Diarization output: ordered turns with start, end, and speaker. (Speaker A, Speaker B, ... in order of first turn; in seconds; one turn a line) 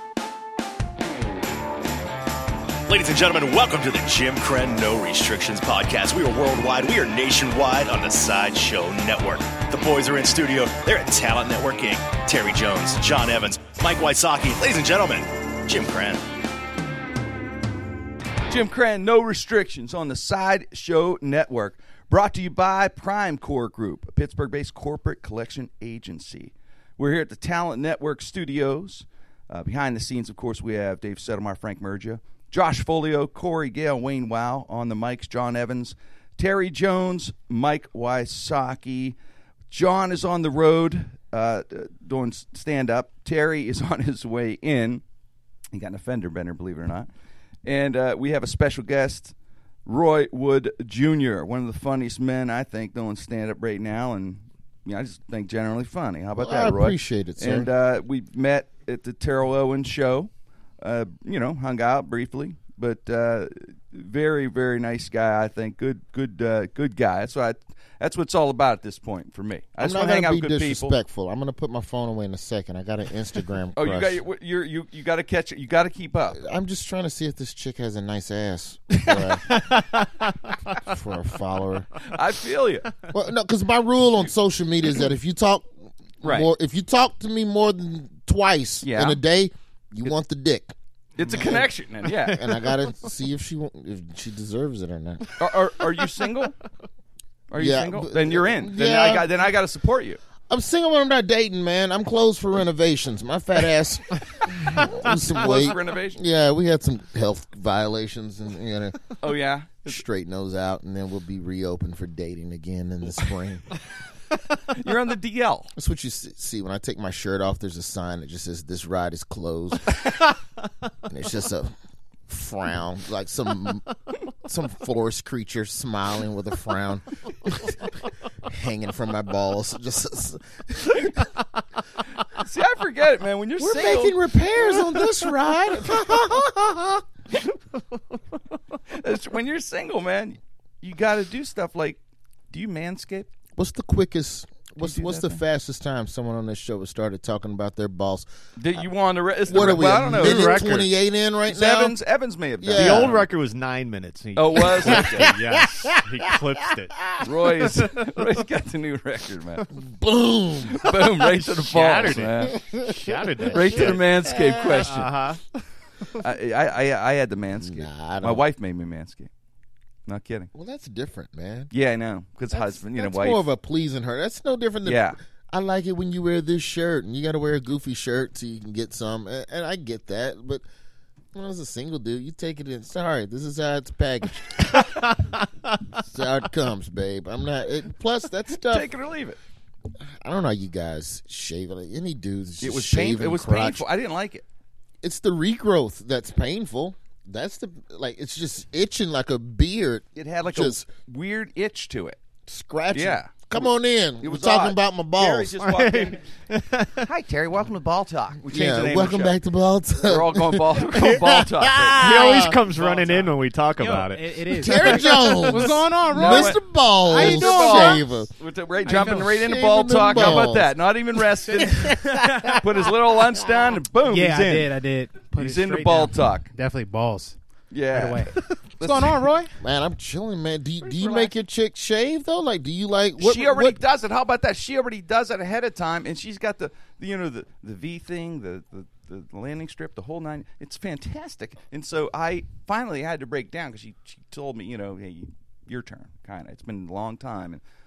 Speaker A: 2.9-16.2
Speaker B: 18.5-39.2
Speaker B: 39.7-45.0
Speaker B: 45.7-47.1
Speaker B: 47.7-49.3
Speaker B: 49.9-60.3
Speaker C: 56.4-57.7
Speaker B: 60.8-71.0
Speaker C: 69.8-74.2
Speaker B: 73.8-76.4
Speaker C: 76.3-79.8
Speaker C: 80.7-82.0
Speaker B: 82.0-83.0
Speaker C: 83.1-85.7
Speaker C: 86.2-90.7
Speaker B: 86.2-86.5
Speaker B: 88.8-89.2
Speaker B: 91.2-92.5
Speaker D: 91.2-91.6
Speaker C: 91.3-95.4
Speaker B: 95.4-96.5
Speaker B: 97.5-100.2
Speaker C: 97.6-99.3
Speaker C: 100.5-109.2
Speaker B: 104.9-106.2
Speaker B: 109.2-110.0
Speaker C: 109.9-113.6
Speaker B: 114.7-115.7
Speaker C: 115.8-120.0
Speaker C: 121.1-121.7
Speaker C: 122.3-131.3
Speaker B: 132.4-134.2
Speaker C: 133.6-137.0
Speaker B: 138.9-142.0
Speaker B: 142.5-143.3
Speaker C: 143.6-148.3
Speaker B: 144.8-145.4
Speaker B: 148.6-150.9
Speaker C: 149.5-151.9
Speaker D: 149.5-150.7
Speaker B: 151.5-153.3
Speaker C: 152.6-153.3
Speaker D: 152.7-157.0
Speaker B: 154.3-155.4
Speaker C: 154.7-156.3
Speaker C: 157.0-157.3
Speaker B: 157.2-159.7
Speaker C: 159.8-161.0
Speaker B: 160.7-162.6
Speaker D: 161.4-164.0
Speaker C: 162.6-164.9
Speaker B: 163.5-165.2
Speaker D: 164.8-165.4
Speaker B: 166.1-169.3
Speaker C: 167.6-168.4
Speaker B: 170.1-170.5
Speaker C: 170.5-171.7
Speaker B: 171.7-173.4
Speaker C: 172.5-180.6
Speaker B: 174.8-175.2
Speaker C: 181.3-185.0
Speaker D: 184.7-185.0
Speaker C: 185.9-188.9
Speaker B: 188.7-189.4
Speaker C: 190.2-193.8
Speaker B: 192.6-194.4
Speaker C: 195.0-200.8
Speaker B: 200.2-202.2
Speaker C: 202.5-205.6
Speaker B: 202.9-203.7
Speaker B: 204.2-206.2
Speaker D: 205.6-207.1
Speaker B: 207.0-209.3
Speaker C: 208.5-212.6
Speaker B: 210.1-212.5
Speaker D: 211.9-215.0
Speaker E: 212.7-218.1
Speaker C: 214.6-218.3
Speaker B: 214.8-216.6
Speaker B: 217.1-224.7
Speaker E: 218.9-219.3
Speaker C: 219.2-220.7
Speaker E: 221.5-222.6
Speaker E: 224.1-227.4
Speaker B: 225.3-226.5
Speaker B: 227.7-229.2
Speaker E: 227.9-229.5
Speaker C: 229.6-233.8
Speaker B: 233.2-247.6